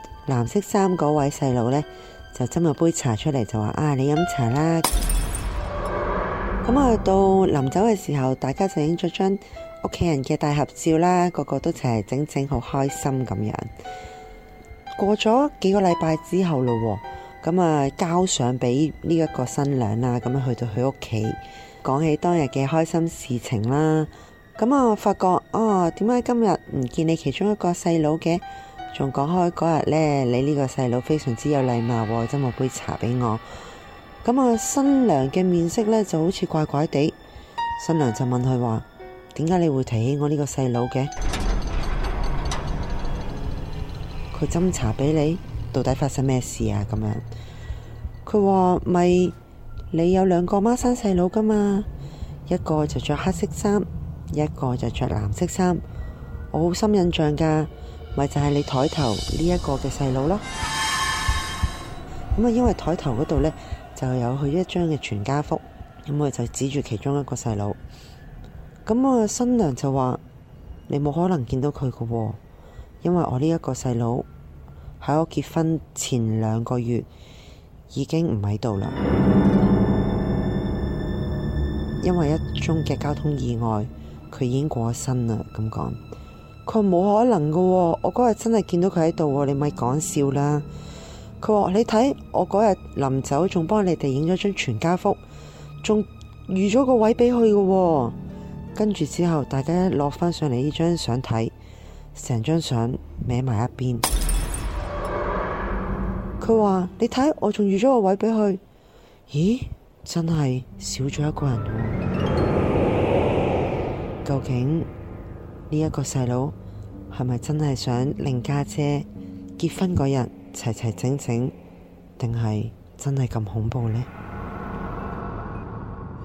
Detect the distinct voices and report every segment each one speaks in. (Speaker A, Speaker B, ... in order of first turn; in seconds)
Speaker A: 0.2-4.9, 6.6-13.7, 14.9-33.5, 34.2-37.1, 37.8-41.1, 44.3-47.2, 48.2-49.3, 49.9-51.9, 52.5-55.8, 56.5-60.4, 62.3-67.8, 68.8-70.2, 70.9-72.4, 73.0-74.3, 75.0-77.1, 77.9-79.0, 82.0-86.0, 86.7-90.7, 91.4-95.2, 95.8-98.2, 98.7-101.5, 102.1-104.1, 106.4-108.6, 109.3-112.0, 114.2-114.9, 115.7-116.5, 117.1-119.1, 119.6-121.5, 122.2-124.1